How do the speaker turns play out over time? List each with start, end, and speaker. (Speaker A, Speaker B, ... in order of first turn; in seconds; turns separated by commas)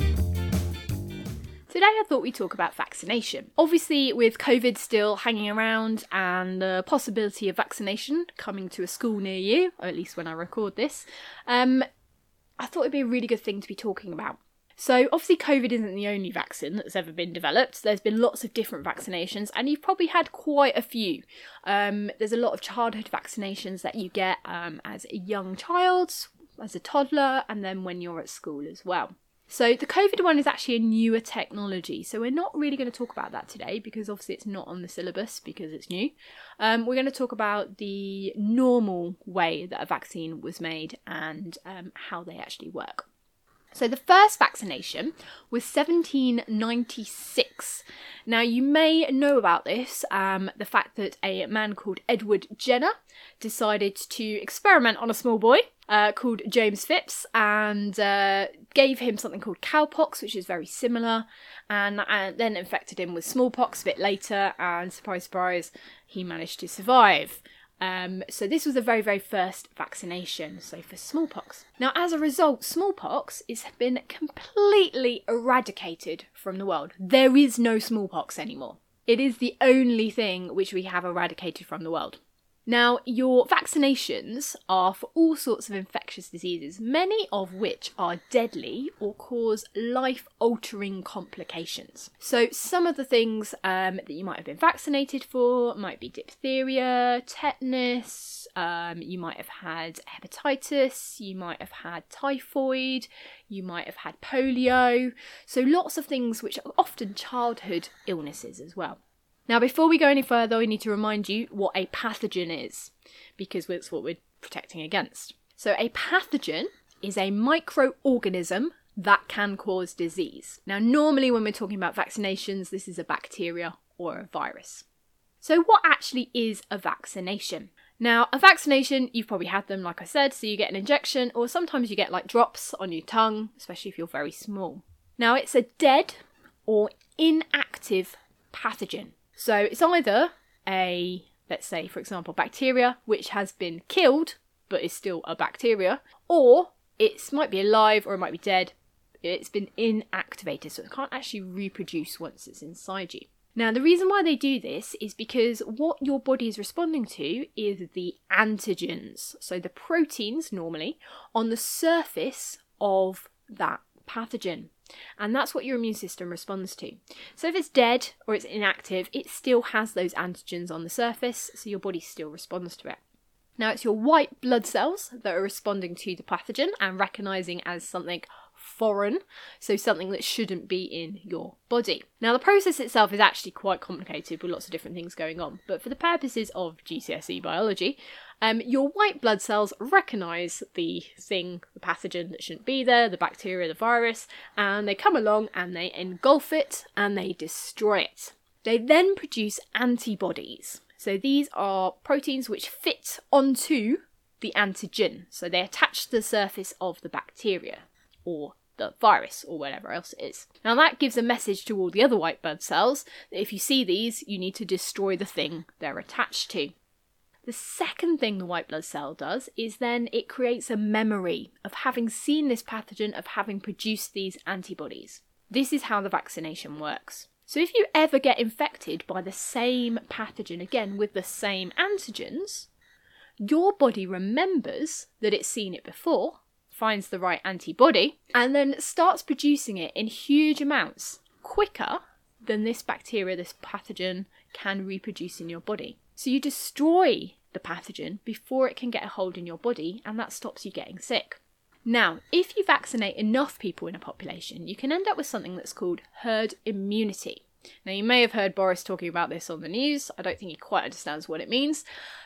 Speaker A: 1.7-11.8, Speaker A: 12.6-43.1, Speaker A: 43.7-124.8, Speaker A: 125.4-173.0, Speaker A: 173.6-216.7, Speaker A: 217.4-232.7, Speaker A: 233.4-261.8